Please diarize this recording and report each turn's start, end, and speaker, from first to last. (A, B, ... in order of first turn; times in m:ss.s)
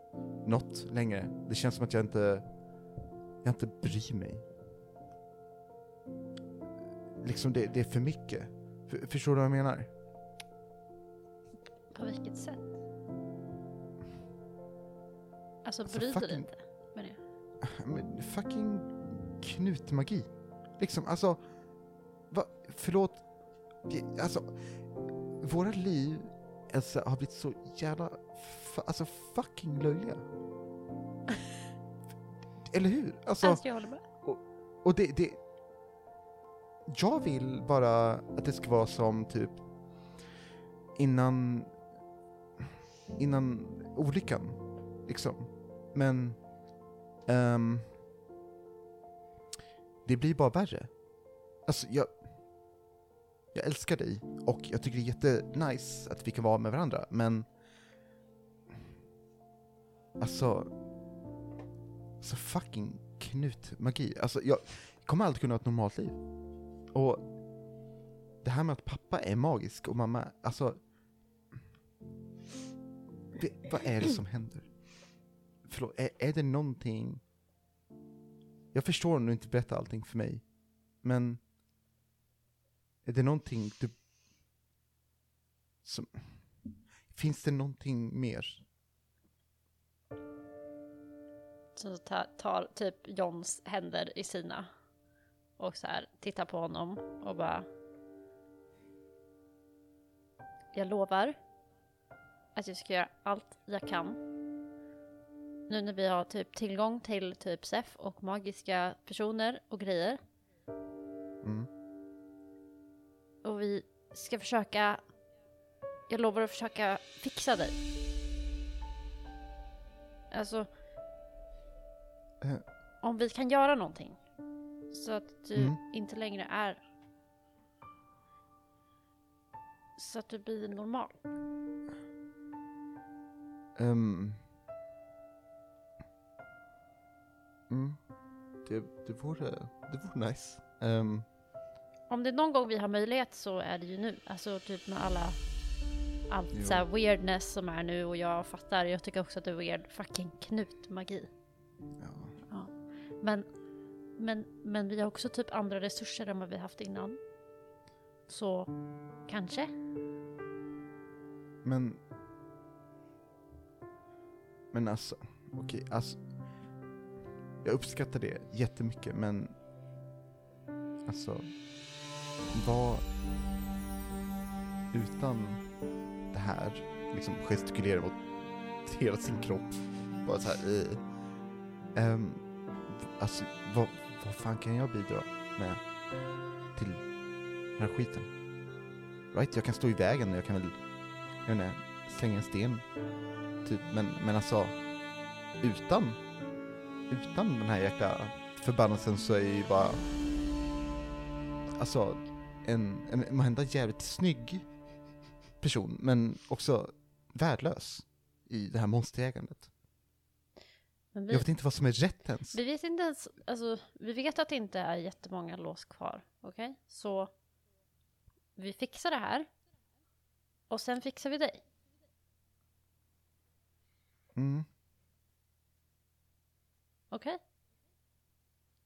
0:00.4-0:02.5 A
0:03.4-0:04.4 A
0:07.2-0:09.9 A
0:11.9-0:12.7 B
0:15.6-0:17.2 B
0:15.9-0:16.5 A
0:17.6-0:21.4 A
0:22.3-0:23.2 A
0:23.8-0:24.6 A
0:25.4-0:30.2 A
0:32.6-0:33.6 A
0:33.4-0:34.0 B
0:34.2-0:35.4 A
0:36.9-0:39.6 A
0:41.0-0:41.7 A
0:43.2-0:47.9 A
0:50.0-0:51.0 A
0:51.6-0:52.2 A
0:53.5-0:57.5 A
1:00.2-1:00.7 A
1:02.2-1:06.2 A
1:06.9-1:07.3 A
1:08.4-1:10.8 A
1:13.4-1:14.7 A
1:15.6-1:17.2 A
1:18.7-1:21.4 A
1:23.0-1:24.0 A
1:25.8-1:26.3 A
1:27.1-1:28.6 A
1:31.8-1:34.7 B
1:35.6-1:37.7 B
1:40.7-1:41.4 B
1:42.6-1:44.2 B
1:45.7-1:50.2 B
1:51.4-1:51.7 A
1:53.4-1:55.1 B
1:56.1-1:57.8 B
2:00.3-2:00.7 B
2:03.0-2:04.2 B
2:04.9-2:06.8 B
2:10.0-2:11.2 B
2:13.8-2:14.4 A
2:17.7-2:18.0 A
2:18.6-2:21.3 A
2:22.1-2:25.4 B
2:26.3-2:31.3 B
2:26.5-2:26.8 A
2:32.0-2:32.3 A
2:32.5-2:33.5 B
2:34.2-2:37.2 B
2:38.3-2:39.7 B
2:41.6-2:42.0 A
2:44.7-2:46.2 A
2:47.6-2:49.6 A
2:51.0-2:51.5 A
2:52.5-2:53.0 A
2:54.9-2:55.7 A
2:56.3-3:01.1 A
3:01.9-3:05.9 A
3:06.7-3:07.2 A
3:07.7-3:08.3 A
3:09.3-3:10.8 A
3:11.4-3:12.9 A
3:13.6-3:16.3 A
3:17.1-3:20.0 A
3:21.8-3:24.7 A
3:25.6-3:29.7 A
3:31.1-3:31.5 B
3:31.3-3:32.6 A
3:32.5-3:37.3 B
3:38.6-3:39.5 B
3:40.7-3:41.6 B
3:44.4-3:44.7 A
3:47.1-3:47.4 B